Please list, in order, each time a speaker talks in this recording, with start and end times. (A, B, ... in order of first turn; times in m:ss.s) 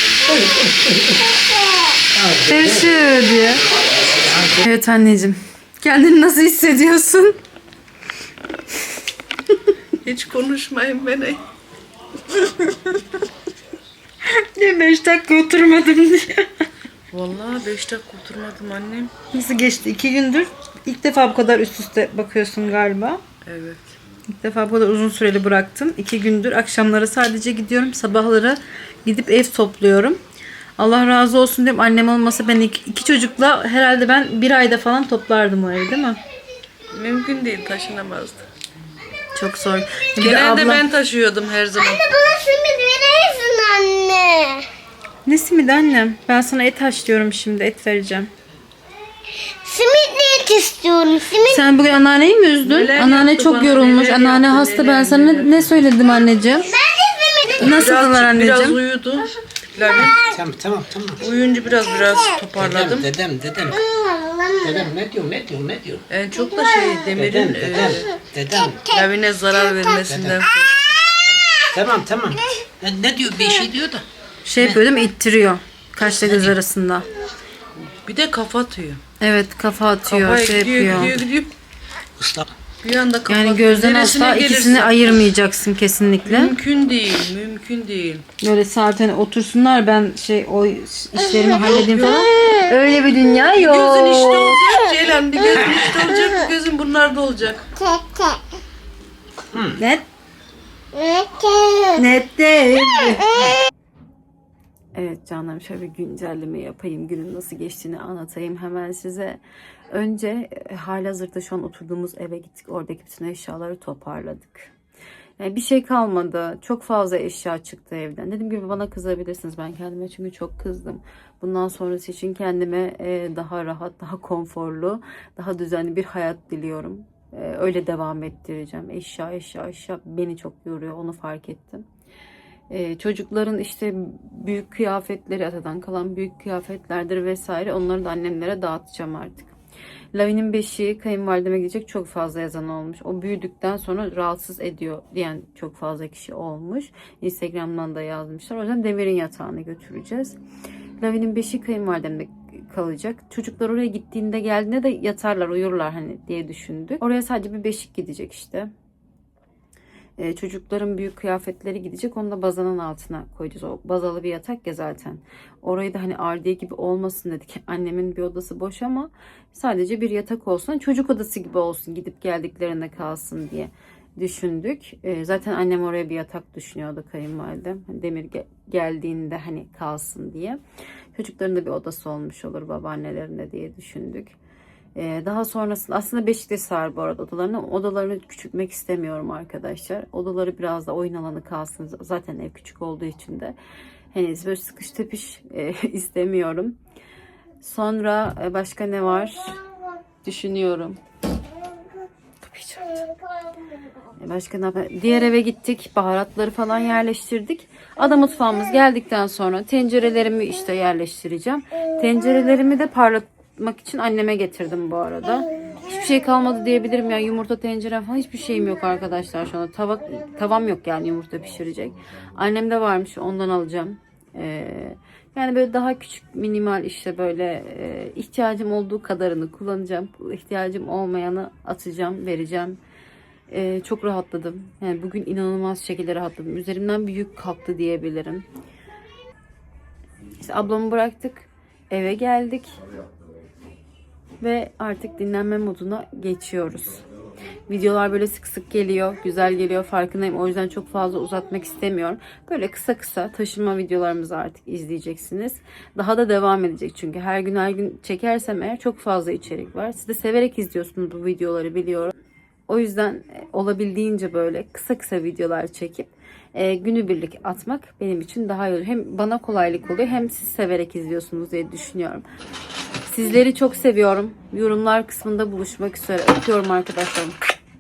0:00.3-0:01.2 A
0:01.4-0:01.9 B
0:02.1-0:02.9 A
0:02.5-0:03.6 C
0:03.8-0:04.6 A
0:04.6-0:07.4 C
0:10.0-0:11.4 D
0:14.4-0:16.4 C
0:17.1-0:19.1 D
0:19.3-0:23.2 C
0:23.4-0:23.9 D
0:24.3-0:30.2 C
0:30.8-0:36.2 C
0:36.9-0:38.4 D
0:39.3-0:40.9 C
0:40.2-0:42.0 D
0:41.7-0:44.6 B
0:45.2-0:48.3 C
0:49.5-0:51.6 B
0:51.4-0:56.7 C
0:52.6-0:55.7 D
0:56.6-0:57.8 B
0:57.6-0:58.8 C
0:57.7-1:00.2 D
0:59.9-1:00.4 B
1:00.0-1:01.2 A
1:01.2-1:03.1 D
1:02.5-1:03.8 A
1:03.7-1:04.9 B
1:04.6-1:06.0 A
1:06.1-1:08.2 D
1:07.2-1:08.9 A
1:08.8-1:11.0 D
1:10.0-1:10.4 A
1:11.2-1:14.0 A
1:14.4-1:17.1 C
1:16.0-1:16.5 A
1:18.0-1:19.0 D
1:19.2-1:21.1 C
1:20.1-1:21.5 D
1:22.2-1:22.5 A
1:22.8-1:25.2 D
1:23.3-1:26.5 C
1:26.2-1:28.2 D
1:28.4-1:34.6 C
1:31.6-1:32.3 D
1:32.4-1:32.6 B
1:33.5-1:37.7 D
1:37.8-1:38.4 B
1:39.8-1:40.1 C
1:40.9-1:42.0 B
1:42.0-1:43.3 C
1:45.0-1:54.7 C
1:55.4-2:11.8 C
2:12.7-2:19.5 C
2:20.1-2:30.4 C
2:31.0-2:38.7 C
2:40.2-3:00.6 C
3:01.1-3:04.4 C
3:05.0-3:13.6 C
3:14.1-3:16.8 C
3:17.6-3:19.6 C
3:20.2-3:21.0 C
3:22.4-3:23.1 C
3:24.2-3:52.8 C
3:53.5-3:58.5 C
4:00.4-4:02.8 C
4:04.4-4:07.0 C
4:07.7-4:22.1 C
4:22.7-4:32.2 C
4:33.1-4:37.4 C